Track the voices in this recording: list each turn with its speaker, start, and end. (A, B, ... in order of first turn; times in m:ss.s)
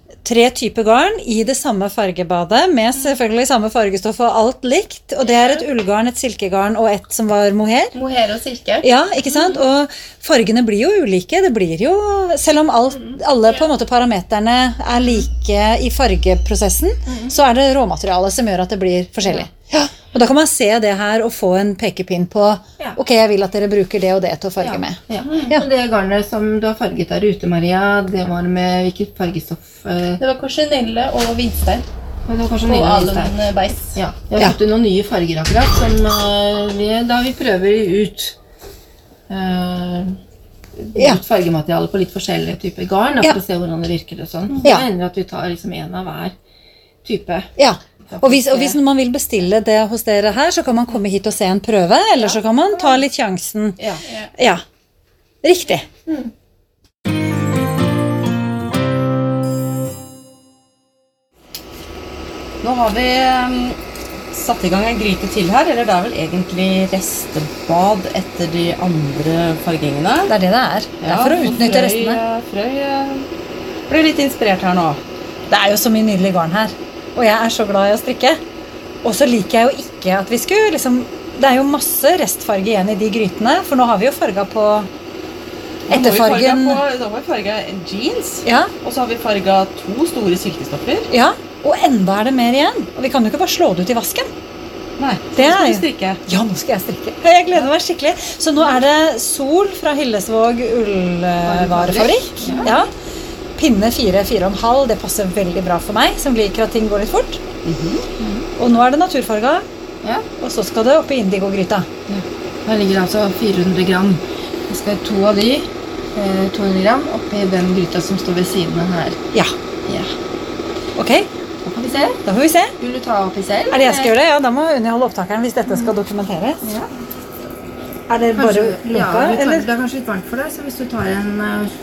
0:00.2-0:07.9 A
0:05.3-0:05.6 B
0:07.9-0:08.8 B
0:08.8-0:25.7 A
0:24.6-0:30.2 C
0:30.2-0:31.8 B
0:32.2-0:33.3 C
0:32.6-0:34.0 B
0:33.9-0:38.4 C
0:39.3-0:40.2 C
0:40.8-0:46.3 C
0:47.0-0:47.5 C
0:47.6-0:53.8 A
0:48.1-0:48.8 C
0:52.2-0:53.0 C
0:54.4-0:54.6 A
0:55.4-0:55.9 A
1:02.6-1:03.8 D
1:04.3-1:10.3 D
1:10.3-1:12.2 A
1:11.0-1:13.3 D
1:13.9-1:15.0 D
1:15.5-1:18.4 A
1:19.0-1:24.9 A
1:25.9-1:31.1 D
1:25.9-1:26.8 A
1:28.4-1:28.7 A
1:31.1-1:34.3 A
1:35.0-1:36.2 D
1:35.4-1:42.9 A
1:41.5-1:42.1 D
1:42.4-1:42.7 C
1:43.6-1:47.4 A
1:47.6-1:48.0 D
1:48.2-1:48.5 C
1:48.6-1:49.6 A
1:50.4-1:51.9 A
1:52.1-1:59.2 C
1:59.8-2:00.1 C
2:01.0-2:01.3 A
2:01.6-2:02.2 C
2:02.2-2:02.7 A
2:02.8-2:04.1 C
2:03.7-2:06.6 A
2:06.6-2:06.9 C
2:08.1-2:09.7 A
2:08.4-2:11.7 C